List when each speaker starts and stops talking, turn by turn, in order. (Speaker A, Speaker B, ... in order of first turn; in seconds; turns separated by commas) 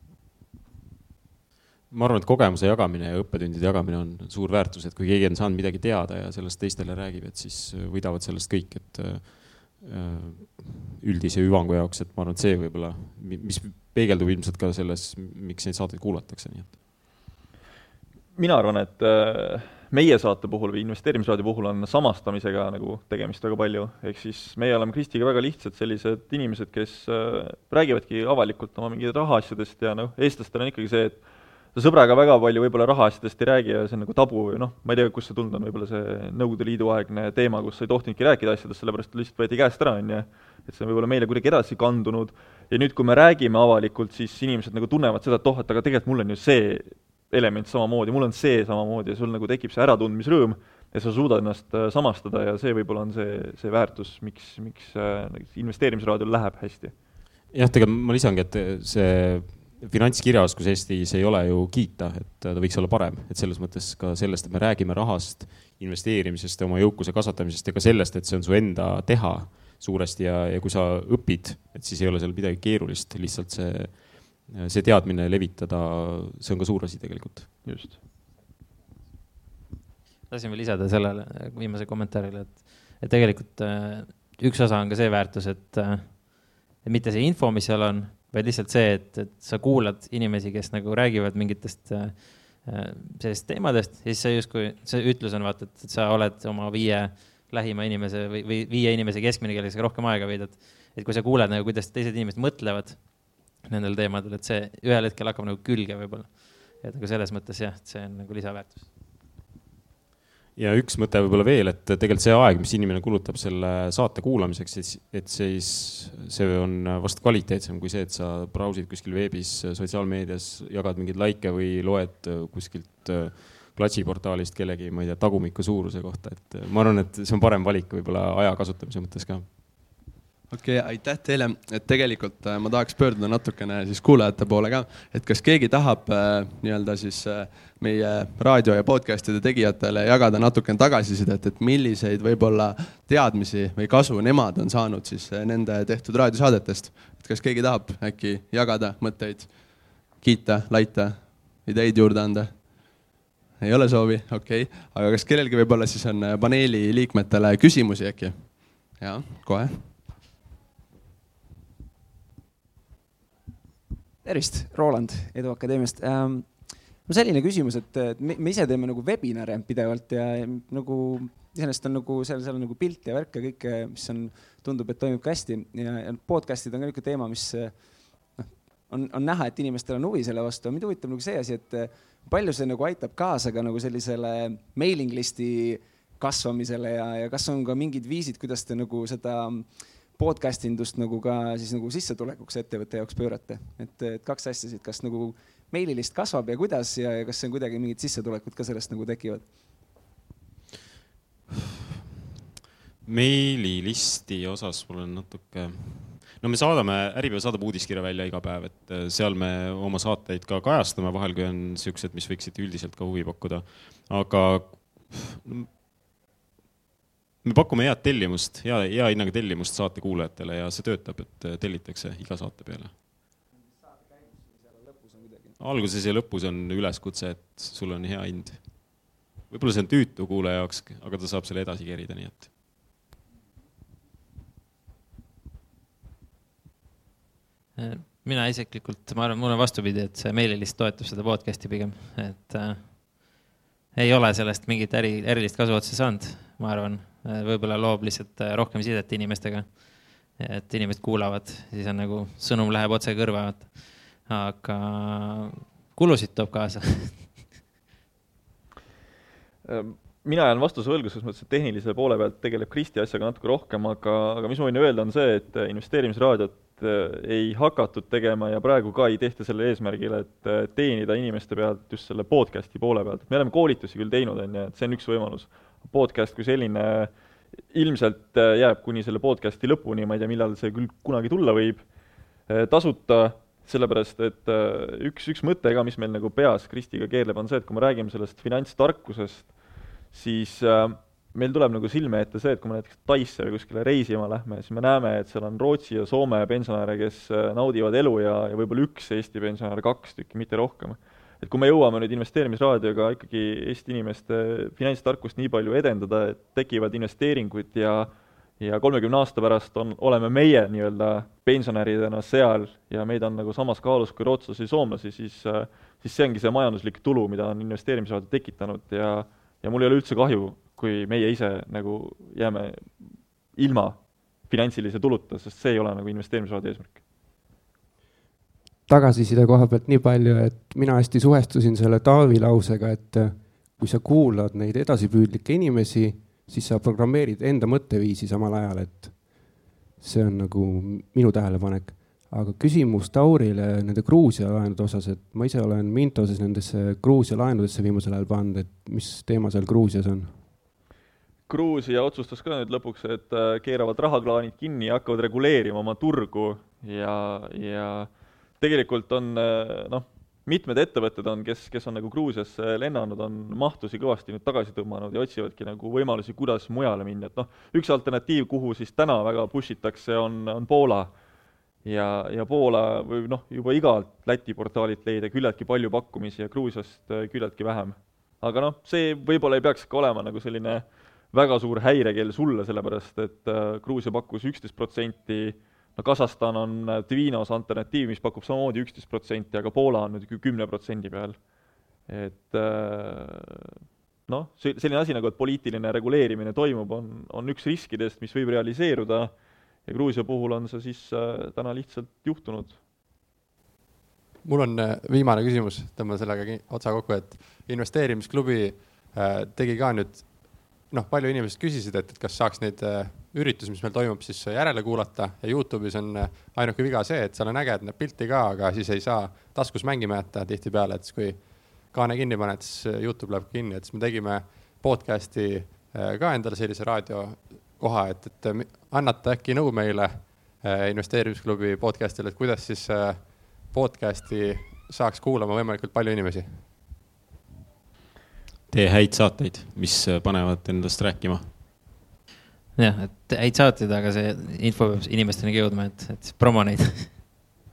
Speaker A: 1.9-16.8, Speaker B: 18.4-56.9, Speaker A: 57.5-77.5, Speaker B: 77.6-78.0, Speaker C: 80.3-108.9, Speaker A: 110.5-129.5, Speaker D: 130.5-149.6, Speaker D: 150.1-153.0, Speaker D: 153.6-159.9, Speaker E: 164.2-199.5, Speaker A: 203.0-215.7, Speaker A: 217.4-222.9, Speaker E: 223.6-225.5, Speaker A: 225.6-228.9, Speaker A: 229.5-232.5, Speaker C: 237.8-243.3, Speaker C: 243.9-257.4, Speaker B: 259.6-277.1, Speaker B: 277.7-281.9, Speaker B: 282.5-327.0, Speaker F: 328.9-350.4, Speaker B: 351.5-371.1, Speaker B: 371.8-391.5, Speaker B: 392.1-393.7, Speaker B: 394.3-402.8, Speaker G: 404.4-436.6, Speaker A: 438.7-441.5, Speaker C: 442.8-447.1